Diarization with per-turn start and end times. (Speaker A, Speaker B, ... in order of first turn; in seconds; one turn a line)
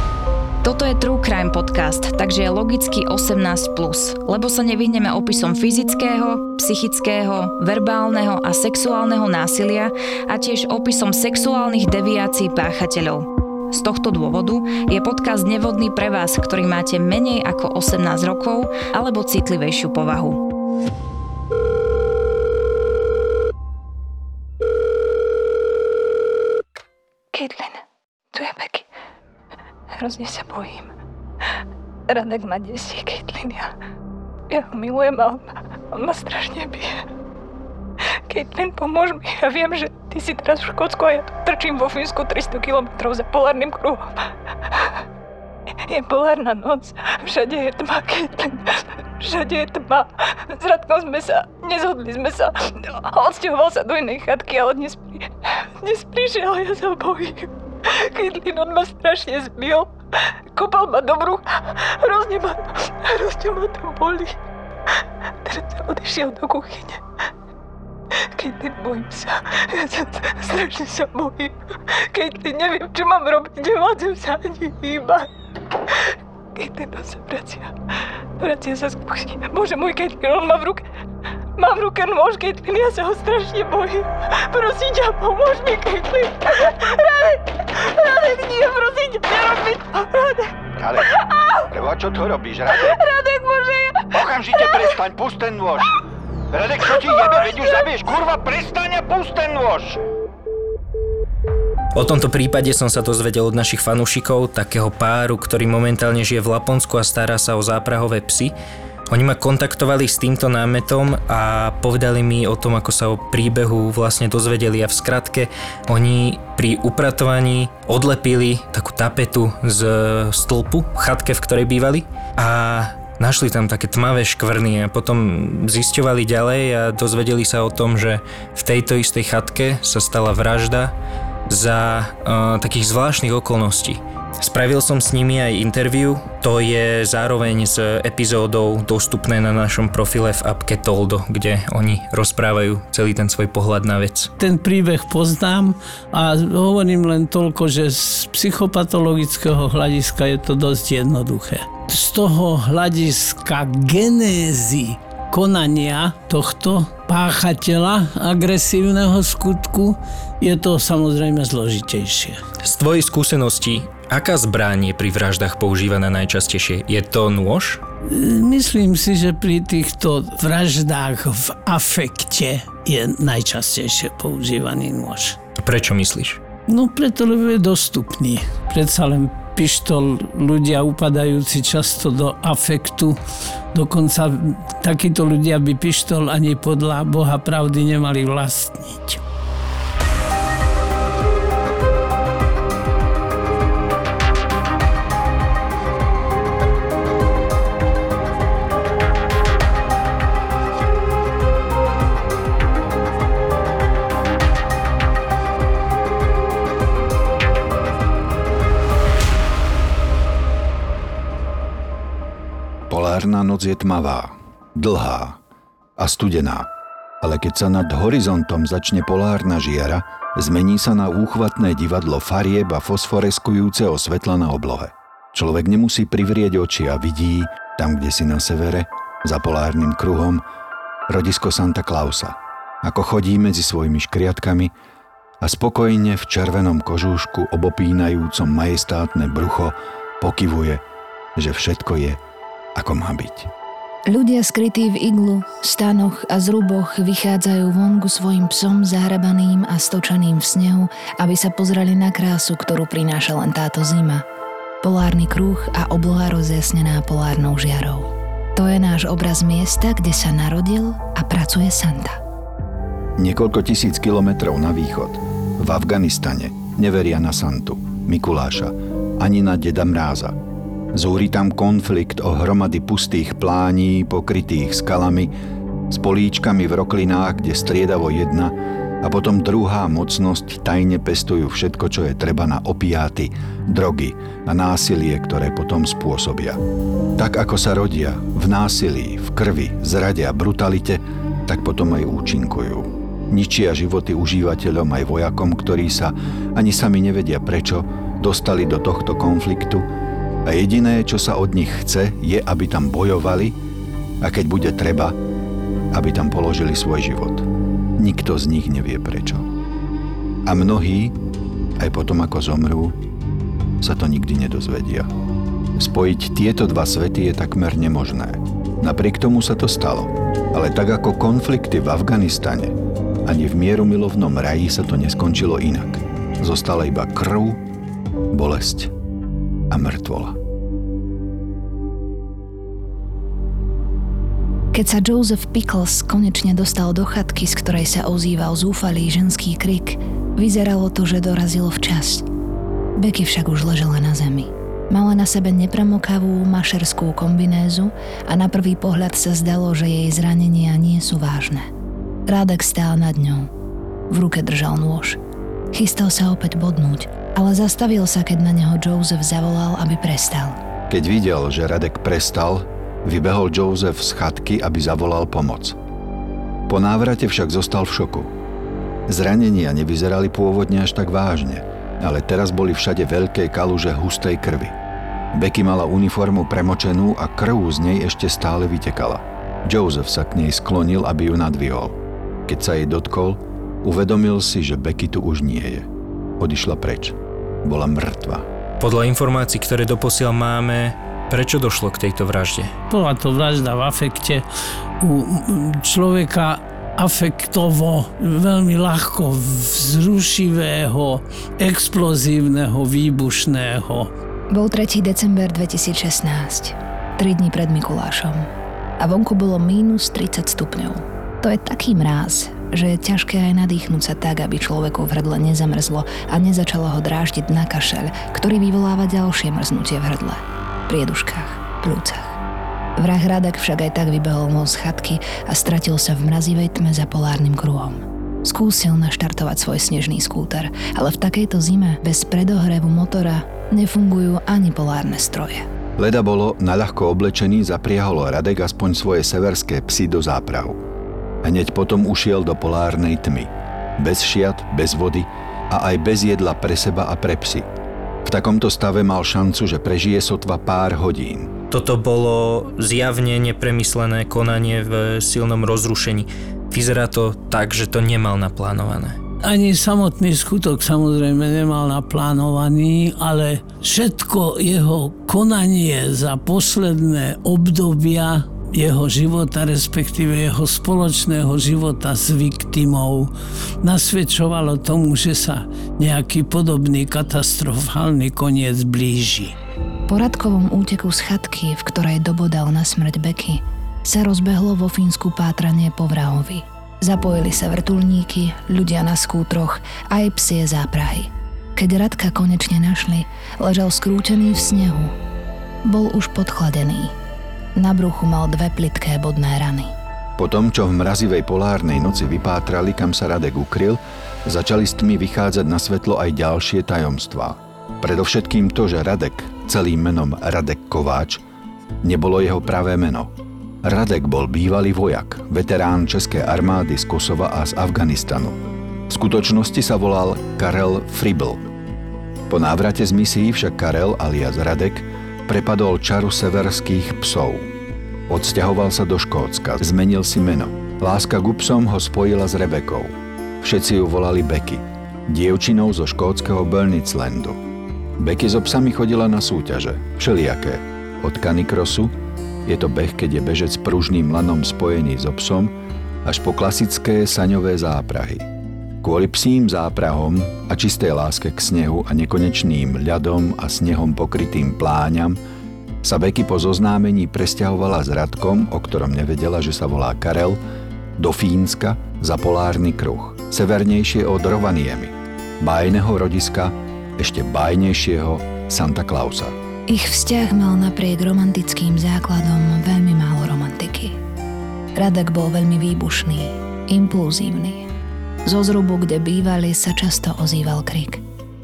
Speaker A: 0.6-20.4
Speaker B: 27.3-28.9
Speaker B: 30.0-30.9
Speaker B: 32.1-33.7
Speaker B: 34.5-37.1
Speaker B: 38.3-45.0
Speaker B: 45.9-64.4
Speaker B: 65.0-67.0
Speaker B: 68.2-75.3
Speaker B: 75.9-77.7
Speaker B: 78.4-80.8
Speaker B: 81.6-91.6
Speaker C: 90.8-93.0
Speaker B: 92.7-94.9
Speaker C: 94.1-96.0
Speaker C: 96.5-100.0
Speaker D: 102.0-108.5
Speaker D: 109.1-130.9
Speaker D: 131.5-144.3
Speaker E: 144.4-162.4
Speaker D: 162.6-167.8
Speaker E: 168.0-175.4
Speaker D: 175.6-176.4
Speaker E: 176.7-183.2
Speaker E: 183.7-189.2
Speaker C: 212.9-215.4
Speaker C: 216.0-216.7
Speaker C: 217.2-230.4
Speaker C: 231.1-234.7
Speaker C: 235.4-240.8
Speaker C: 241.4-242.2
Speaker C: 242.8-243.5
Speaker F: 244.1-254.2
Speaker F: 254.8-262.2
Speaker C: 263.2-270.4
Speaker C: 270.9-275.3
Speaker C: 275.9-286.6
Speaker C: 287.2-299.9
Speaker C: 300.4-303.6
Speaker C: 304.2-305.2
Speaker C: 305.9-309.5
Speaker C: 310.4-311.1
Speaker C: 311.8-313.0
Speaker C: 313.8-315.1
Speaker C: 315.8-322.7
Speaker C: 323.2-327.6
Speaker C: 328.3-328.9
Speaker C: 329.7-330.4
Speaker F: 334.7-342.2
Speaker F: 343.0-351.7
Speaker F: 352.3-353.5
Speaker F: 354.1-355.2
Speaker F: 355.7-360.6
Speaker C: 360.9-365.8
Speaker C: 366.7-368.3
Speaker C: 369.1-374.8
Speaker C: 375.3-382.0
Speaker C: 382.5-385.9
Speaker C: 386.4-388.4
Speaker D: 388.8-392.7
Speaker E: 392.9-394.4
Speaker E: 395.0-404.1
Speaker F: 404.5-408.5
Speaker F: 409.0-422.4
Speaker F: 423.0-435.7
Speaker C: 436.0-440.8
Speaker C: 441.4-447.7
Speaker C: 448.2-451.5
Speaker D: 451.7-459.2
Speaker E: 459.4-479.5
Speaker F: 480.1-495.1
Speaker F: 495.8-497.1
Speaker F: 497.8-499.9
Speaker C: 500.4-511.4
Speaker C: 512.0-513.3
Speaker C: 513.8-521.6
Speaker C: 522.5-527.7
Speaker C: 528.3-537.6
Speaker C: 538.2-542.1
Speaker C: 542.6-545.7
Speaker C: 546.2-548.5
Speaker C: 549.0-555.4
Speaker C: 556.0-560.6
Speaker C: 561.2-569.5
Speaker F: 569.9-574.2
Speaker F: 575.0-577.9
Speaker F: 578.5-581.2